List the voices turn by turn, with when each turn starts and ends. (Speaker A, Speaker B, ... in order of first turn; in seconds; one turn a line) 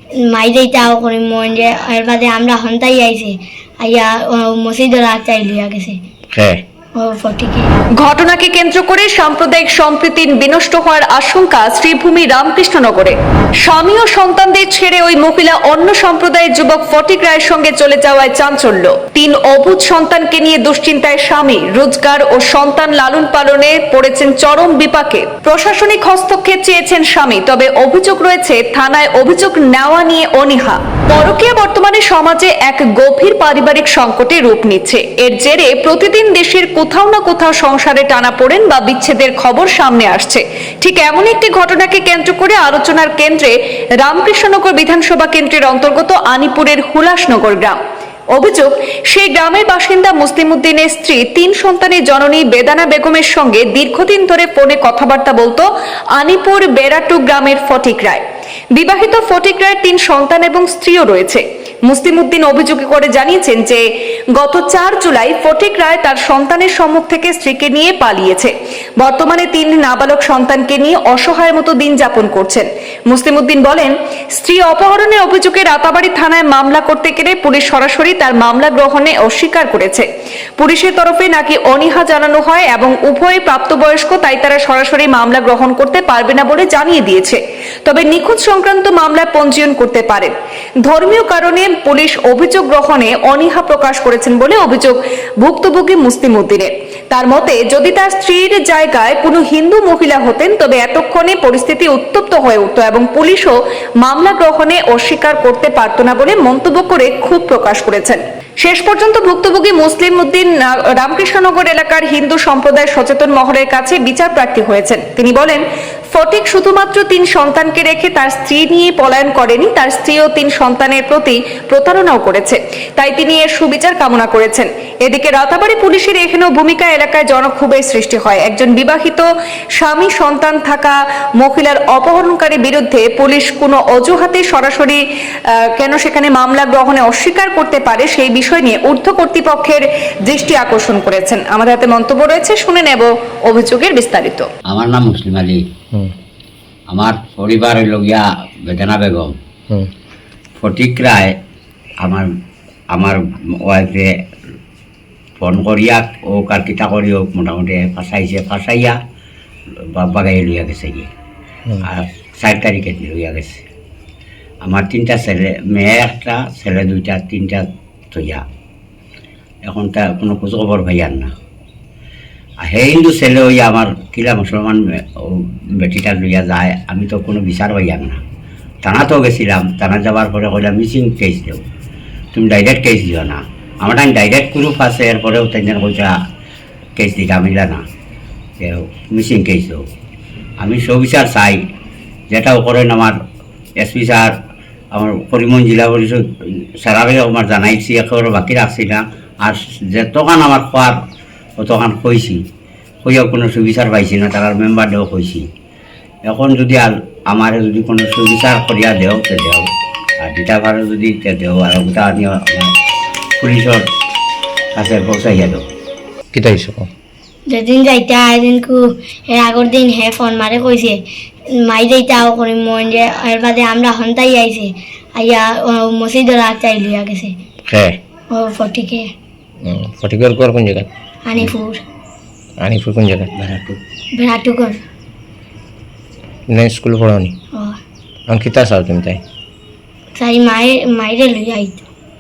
Speaker A: 0.3-6.0
Speaker B: 6.3-6.6
Speaker A: 7.0-7.7
Speaker C: 8.0-47.8
Speaker C: 48.3-58.2
Speaker C: 58.7-63.8
Speaker C: 64.4-80.1
Speaker C: 80.6-90.3
Speaker C: 90.8-144.5
Speaker D: 144.7-145.6
Speaker D: 146.9-149.4
Speaker D: 150.6-151.3
Speaker D: 152.9-154.1
Speaker D: 155.4-159.0
Speaker D: 159.9-161.1
Speaker D: 161.8-163.7
Speaker D: 164.6-168.4
Speaker D: 169.7-171.3
Speaker D: 172.6-178.2
Speaker D: 178.8-181.6
Speaker D: 182.3-186.1
Speaker D: 187.0-187.8
Speaker D: 188.6-189.8
Speaker D: 190.6-191.6
Speaker D: 192.3-193.2
Speaker D: 193.8-194.3
Speaker D: 194.9-196.2
Speaker D: 196.8-201.0
Speaker D: 201.6-202.4
Speaker D: 203.0-205.4
Speaker D: 206.3-209.7
Speaker D: 210.2-212.7
Speaker D: 213.4-213.8
Speaker D: 214.8-215.6
Speaker B: 216.3-216.9
Speaker A: 217.5-221.0
Speaker A: 221.6-227.3
Speaker B: 227.7-228.0
Speaker A: 228.3-229.1
Speaker B: 229.7-230.9
Speaker A: 231.3-231.8
Speaker B: 232.6-233.6
Speaker D: 233.5-233.7
Speaker A: 234.2-234.8
Speaker B: 236.5-237.3
Speaker B: 238.3-239.2
Speaker A: 240.2-241.8